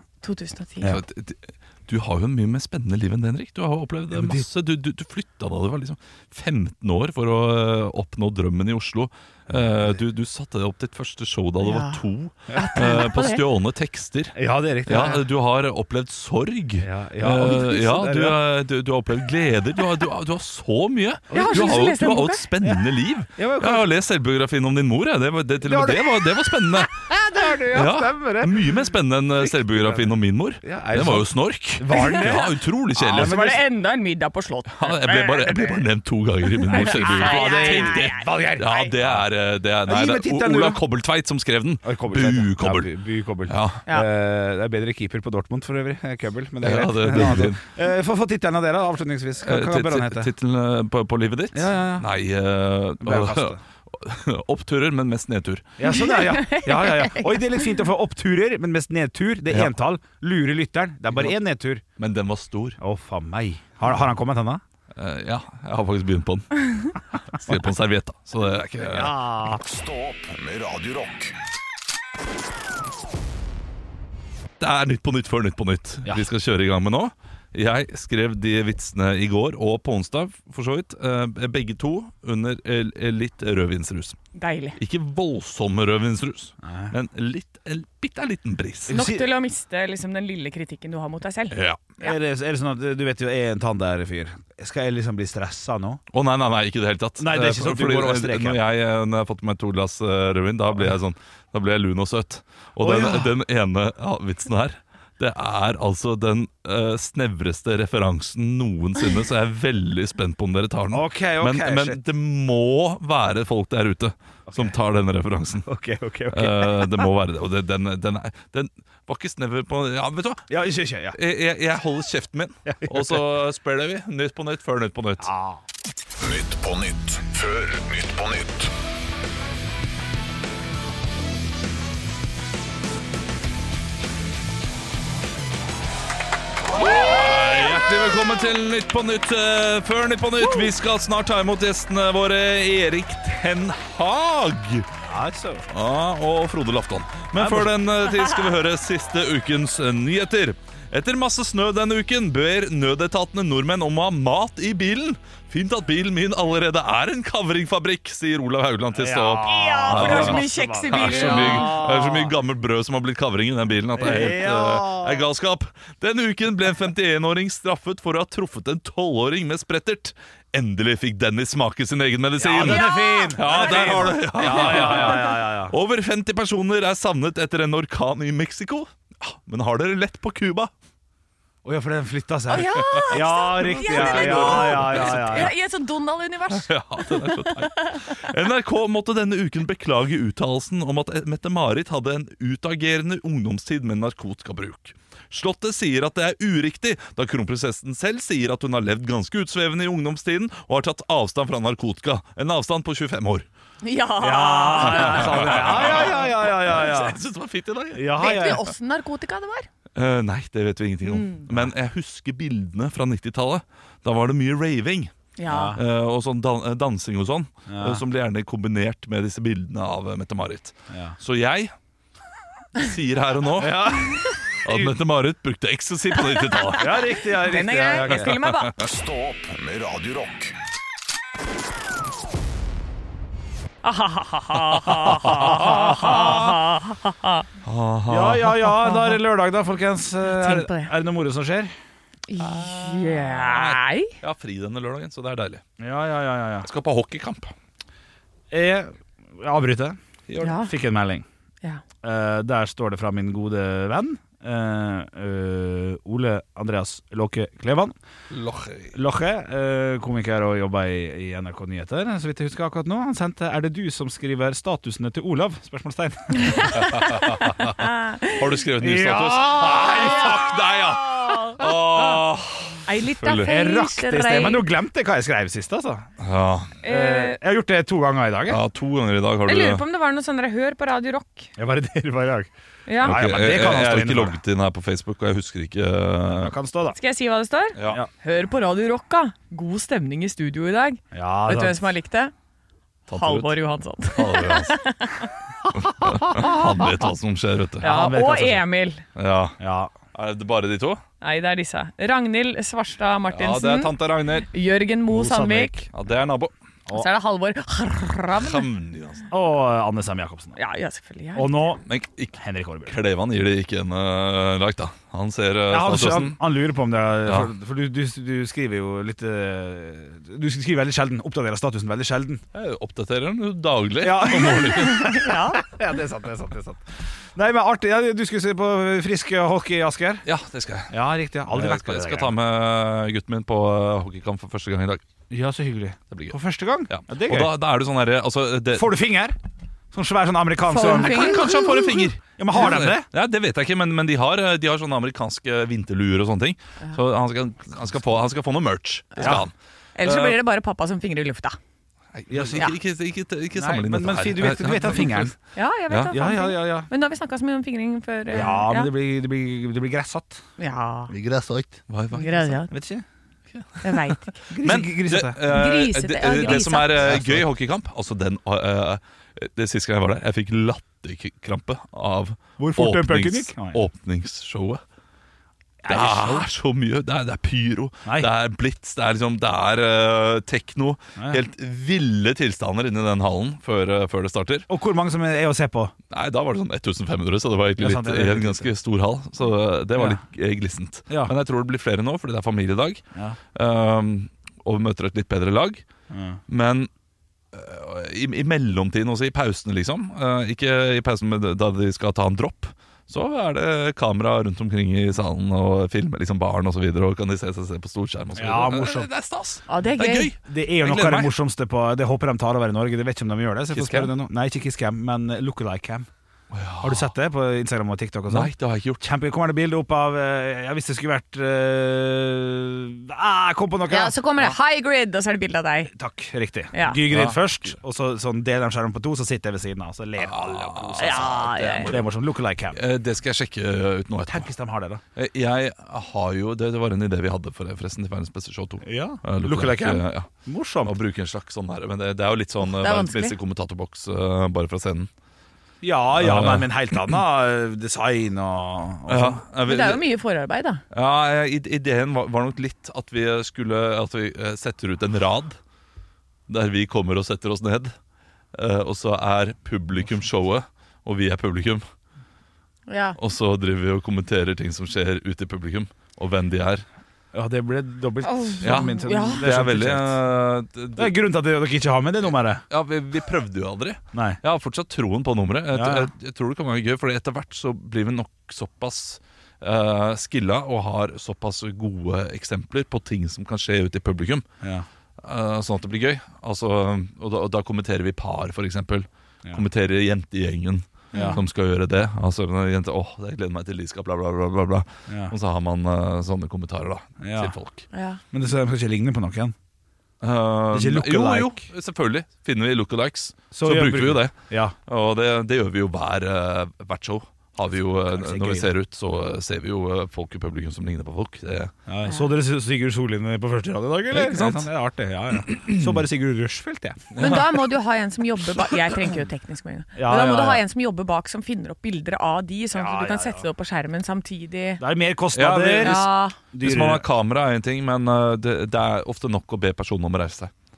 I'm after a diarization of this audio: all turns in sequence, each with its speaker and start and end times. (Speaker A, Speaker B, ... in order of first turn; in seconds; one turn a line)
Speaker A: 0.2-0.9
Speaker B: 0.8-27.0
Speaker C: 4.1-4.5
Speaker C: 9.5-10.0
Speaker A: 11.6-12.0
Speaker A: 12.5-13.4
Speaker C: 12.5-12.9
Speaker C: 14.3-15.2
Speaker C: 16.8-18.4
Speaker C: 21.3-21.9
Speaker A: 21.3-22.4
Speaker C: 23.4-23.9
Speaker C: 25.6-33.6
Speaker B: 27.7-33.5
Speaker A: 31.9-32.4
Speaker A: 33.0-35.8
Speaker B: 34.8-42.9
Speaker A: 36.7-38.8
Speaker C: 36.7-39.2
Speaker C: 39.8-40.8
Speaker C: 41.8-50.3
Speaker B: 43.5-43.8
Speaker B: 46.6-47.6
Speaker B: 49.4-55.7
Speaker C: 51.5-52.1
Speaker C: 53.0-53.6
Speaker C: 55.8-61.8
Speaker A: 55.9-57.4
Speaker B: 62.0-62.8
Speaker C: 62.8-64.6
Speaker B: 65.0-69.1
Speaker C: 68.8-69.6
Speaker D: 69.6-71.3
Speaker B: 74.6-84.2
Speaker A: 84.3-84.8
Speaker B: 84.8-89.0
Speaker C: 86.6-86.9
Speaker C: 88.9-89.3
Speaker A: 88.9-92.1
Speaker B: 91.5-91.8
Speaker C: 92.0-96.0
Speaker B: 96.1-115.7
Speaker C: 97.2-98.6
Speaker C: 102.8-103.3
Speaker C: 110.9-112.0
Speaker C: 114.5-114.8
Speaker C: 115.6-117.1
Speaker B: 116.3-120.5
Speaker C: 120.5-121.2
Speaker B: 121.1-125.3
Speaker C: 122.7-123.2
Speaker C: 125.2-125.6
Speaker D: 126.2-128.7
Speaker B: 136.8-144.9
Speaker C: 145.1-145.7
Speaker B: 145.7-180.7
Speaker C: 147.3-147.8
Speaker C: 158.9-162.3
Speaker A: 159.4-161.8
Speaker C: 163.9-165.3
Speaker C: 172.4-175.7
Speaker A: 172.6-175.2
Speaker C: 181.6-185.5
Speaker A: 182.5-188.0
Speaker B: 182.8-185.5
Speaker B: 186.5-203.4
Speaker A: 203.8-205.6
Speaker C: 204.2-207.2
Speaker B: 204.8-208.3
Speaker C: 207.9-208.6
Speaker A: 208.2-209.7
Speaker B: 209.9-215.1
Speaker A: 211.1-211.4
Speaker A: 215.4-215.8
Speaker C: 215.5-215.8
Speaker B: 215.8-221.7
Speaker C: 217.7-218.0
Speaker C: 220.9-221.2
Speaker B: 222.8-223.9
Speaker C: 223.6-224.9
Speaker B: 224.6-227.1
Speaker A: 226.7-228.7
Speaker C: 226.8-228.3
Speaker B: 228.1-228.8
Speaker D: 228.8-230.5
Speaker A: 233.8-237.4
Speaker C: 235.3-235.8
Speaker B: 235.4-236.4
Speaker B: 237.6-238.7
Speaker C: 238.1-241.7
Speaker A: 240.3-240.9
Speaker A: 242.3-244.1
Speaker B: 242.4-245.6
Speaker C: 245.8-246.7
Speaker B: 246.6-247.5
Speaker C: 248.5-251.2
Speaker A: 250.4-250.7
Speaker C: 252.0-257.9
Speaker B: 258.3-258.9
Speaker C: 258.9-266.9
Speaker A: 266.4-268.4
Speaker B: 266.7-273.5
Speaker C: 268.8-270.6
Speaker A: 269.9-271.6
Speaker A: 272.8-274.6
Speaker C: 273.3-276.1
Speaker B: 276.2-276.8
Speaker A: 276.8-277.4
Speaker C: 276.8-278.6
Speaker B: 278.5-279.8
Speaker A: 279.5-281.5
Speaker C: 281.6-282.5
Speaker A: 282.9-283.2
Speaker C: 283.0-284.4
Speaker B: 283.0-286.5
Speaker C: 286.3-287.0
Speaker A: 286.9-292.3
Speaker B: 287.8-288.0
Speaker C: 291.1-291.9
Speaker B: 293.1-293.6
Speaker A: 293.1-295.3
Speaker B: 294.1-294.8
Speaker B: 295.8-297.9
Speaker C: 296.1-296.5
Speaker A: 297.8-299.0
Speaker C: 297.8-298.6
Speaker B: 299.1-299.6
Speaker C: 299.6-299.9
Speaker B: 300.1-301.0
Speaker A: 301.2-305.8
Speaker B: 303.3-304.5
Speaker C: 305.1-305.9
Speaker B: 305.9-306.5
Speaker A: 306.9-308.7
Speaker B: 308.3-309.3
Speaker C: 309.3-310.6
Speaker A: 310.6-311.7
Speaker C: 311.3-311.8
Speaker B: 311.9-316.4
Speaker C: 312.4-312.9
Speaker C: 315.7-322.4
Speaker B: 322.5-325.3
Speaker C: 324.0-326.8
Speaker A: 324.6-325.6
Speaker C: 327.3-330.2
Speaker B: 330.2-330.9
Speaker C: 330.9-332.3
Speaker B: 331.5-335.0
Speaker C: 335.3-337.6
Speaker B: 336.1-336.4
Speaker B: 336.9-338.9
Speaker C: 338.7-339.4
Speaker C: 339.9-343.1
Speaker A: 340.7-342.0
Speaker B: 340.8-349.5
Speaker C: 349.2-349.4
Speaker A: 350.0-351.6
Speaker B: 350.0-350.4
Speaker B: 352.1-355.3
Speaker C: 352.3-352.7
Speaker C: 353.5-355.3
Speaker A: 355.5-358.9
Speaker C: 356.1-356.9
Speaker C: 358.3-360.4
Speaker A: 360.6-361.1
Speaker C: 361.1-361.6
Speaker B: 361.9-362.5
Speaker A: 362.1-362.7
Speaker C: 362.7-363.0
Speaker B: 363.5-374.8
Speaker A: 363.8-364.3
Speaker C: 364.5-365.4
Speaker A: 365.5-367.1
Speaker C: 366.4-367.4
Speaker C: 372.6-373.8
Speaker C: 375.8-376.5
Speaker B: 375.9-384.7
Speaker C: 381.2-381.4
Speaker C: 384.7-385.9
Speaker B: 386.1-393.0
Speaker C: 387.8-388.7
Speaker C: 389.9-390.2
Speaker B: 393.5-395.8
Speaker C: 396.1-396.4
Speaker B: 396.5-396.9
Speaker B: 397.5-411.3
Speaker C: 408.4-409.1
Speaker A: 409.7-410.3
Speaker C: 410.4-416.1
Speaker B: 413.7-414.1
Speaker B: 416.5-417.1
Speaker C: 416.8-424.5
Speaker B: 418.3-419.0
Speaker A: 423.9-425.9
Speaker C: 425.9-432.8
Speaker A: 426.7-427.0
Speaker B: 427.1-427.4
Speaker B: 430.2-432.1
Speaker A: 431.0-431.9
Speaker B: 432.7-434.5
Speaker C: 434.3-435.0
Speaker B: 435.1-440.3
Speaker C: 438.8-440.9
Speaker B: 440.8-445.1
Speaker A: 442.6-443.3
Speaker C: 445.8-449.4
Speaker B: 446.1-446.7
Speaker B: 449.1-450.0
Speaker A: 449.6-450.8
Speaker B: 450.9-455.6
Speaker B: 456.5-457.9
Speaker B: 458.5-461.8
Speaker A: 462.9-463.2
Speaker B: 463.2-466.8
Speaker C: 467.3-470.2
Speaker A: 468.2-469.4
Speaker B: 468.6-471.1
Speaker C: 471.0-472.6
Speaker B: 472.7-484.4
Speaker C: 475.7-476.1
Speaker C: 484.6-484.9
Speaker B: 485.2-497.9
Speaker A: 491.1-491.4
Speaker C: 491.1-491.4
Speaker C: 495.1-495.3
Speaker C: 497.2-497.5
Speaker A: 497.9-498.2
Speaker C: 498.3-499.5
Speaker B: 500.2-511.7
Speaker C: 500.7-501.6
Speaker C: 503.5-504.7
Speaker C: 508.0-508.7
Speaker C: 511.9-517.1
Speaker B: 514.1-514.7
Speaker B: 517.1-517.5
Speaker A: 517.2-524.8
Speaker C: 519.9-520.6
Speaker C: 522.7-523.5
Speaker C: 524.8-527.0
Speaker B: 525.3-530.5
Speaker A: 525.8-526.4